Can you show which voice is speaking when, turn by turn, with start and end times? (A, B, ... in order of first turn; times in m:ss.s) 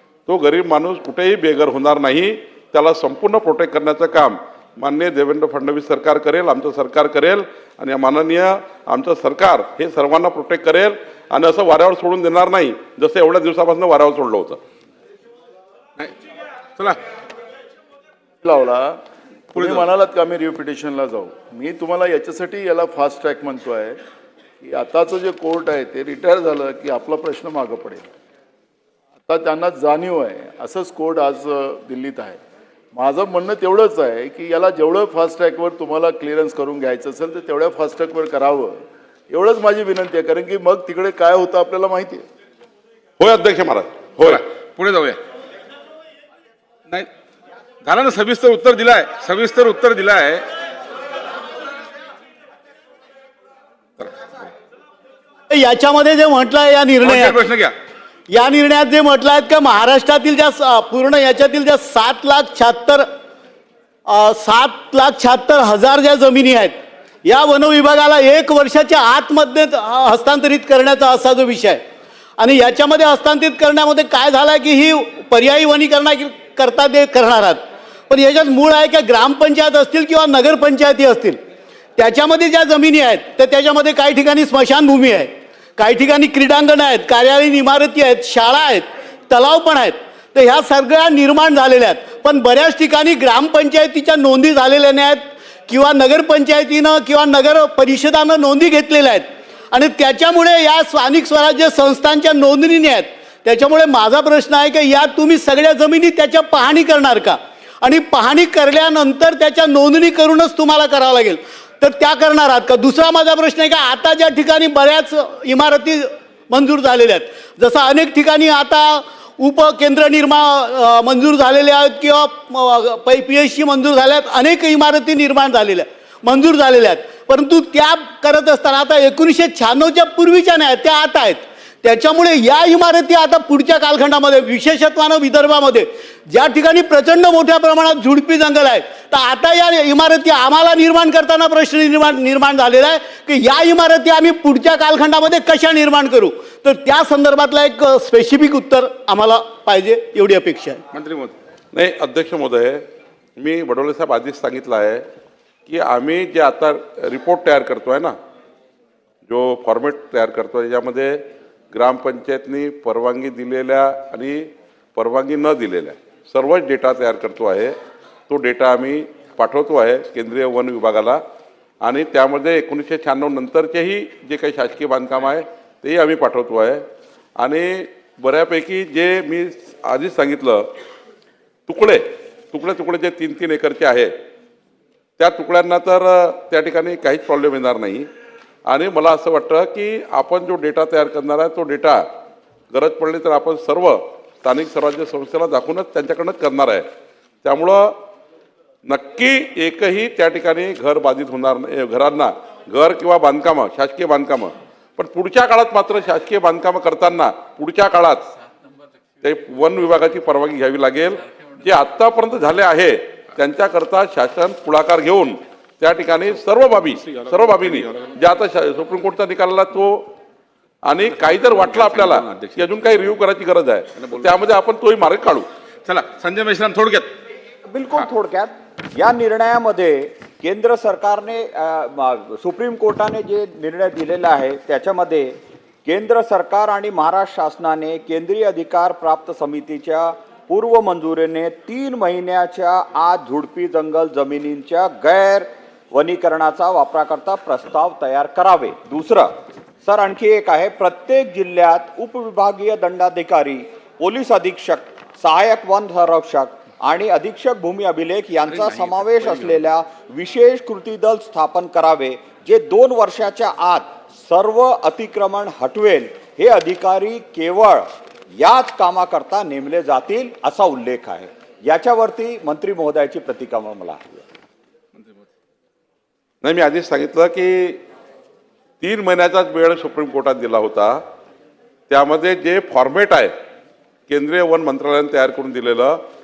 0:00.2-0:14.6 A
0:18.4-0:19.0 B
0:19.5-0:19.9 C
0:19.5-0:24.0 B
0:24.6-0:28.0 B
0:29.2-0:32.4 B
0:32.9-0:42.2 B
0:43.2-0:44.4 A
0:44.2-0:45.2 C
0:47.8-0:50.4 C
0:55.5-0:57.4 D
0:57.0-0:57.7 C
0:58.3-1:03.1 D
1:04.1-1:06.7 D
1:07.2-1:11.8 D
1:12.4-1:21.4 D
1:22.0-2:30.8 D
2:30.9-2:31.3 C
2:31.7-2:32.8 A
2:33.4-2:35.0 A
2:35.7-2:38.1 A
2:39.2-2:41.2 A
2:41.7-2:47.7 A
2:48.3-2:51.2 A
2:51.8-2:56.8 A
2:57.4-3:00.7 A
3:01.7-3:04.1 A
3:05.2-3:08.1 A
3:08.6-3:12.0 A
3:12.7-3:16.9 A
3:17.4-3:17.9 A
3:18.8-3:28.3 A
3:29.2-3:40.1 A
3:37.3-3:37.7 C
3:40.8-3:45.5 A
3:41.7-3:42.3 C
3:45.9-3:47.1 C
3:47.6-4:34.2 E
4:36.4-4:37.8 A
4:38.8-4:41.0 A
4:41.9-4:43.3 A
4:44.1-4:46.0 A